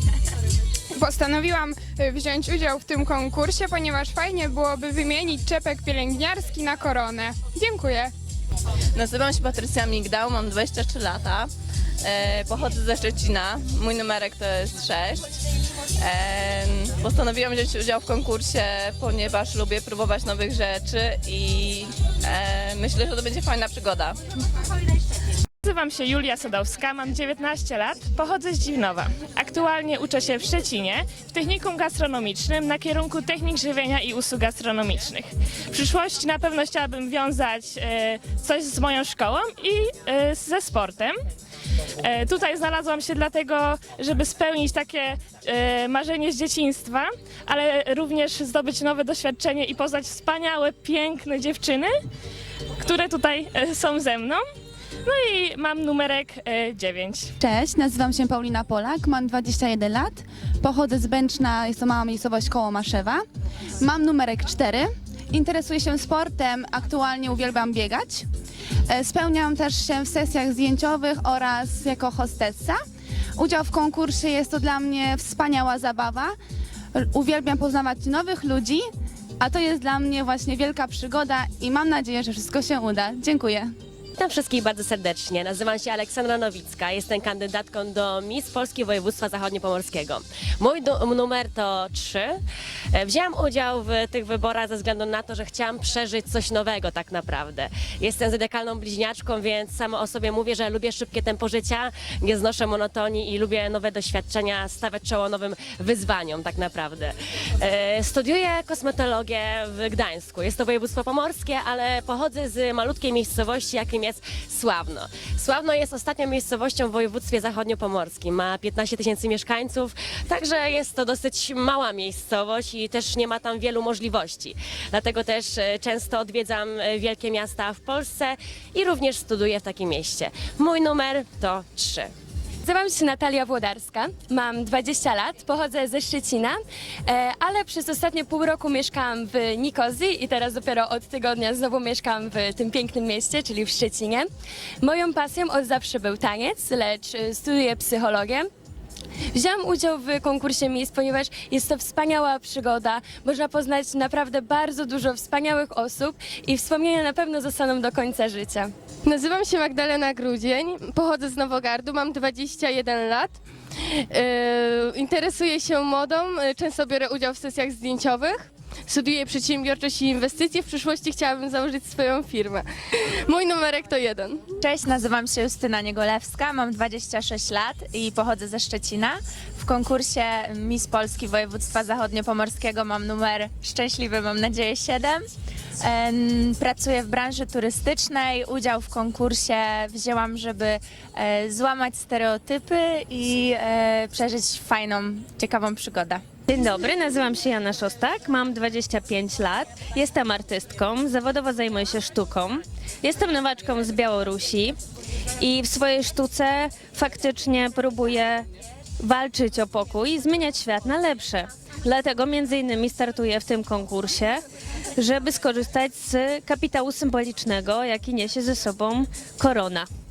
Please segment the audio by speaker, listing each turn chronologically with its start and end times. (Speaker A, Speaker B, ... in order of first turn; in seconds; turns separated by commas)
Speaker A: 0.9-8.1, Speaker B: 8.9-11.5, Speaker B: 12.0-15.2, Speaker B: 16.0-24.2, Speaker C: 25.6-41.1, Speaker C: 42.0-51.9, Speaker C: 52.8-54.4, Speaker C: 55.0-57.3, Speaker D: 57.4-63.2, Speaker D: 63.8-68.2, Speaker D: 68.9-72.8, Speaker D: 73.4-76.3, Speaker D: 76.9-78.9, Speaker D: 79.4-83.7, Speaker E: 84.2-92.4, Speaker E: 92.9-132.1, Speaker F: 132.6-144.3, Speaker F: 144.8-148.5, Speaker F: 149.3-158.7, Speaker G: 159.1-163.4, Speaker G: 164.1-172.7, Speaker G: 173.2-174.4, Speaker H: 174.6-185.2, Speaker H: 185.8-196.2, Speaker I: 196.5-204.8, Speaker I: 205.4-208.5, Speaker I: 209.0-214.4, Speaker I: 215.0-219.9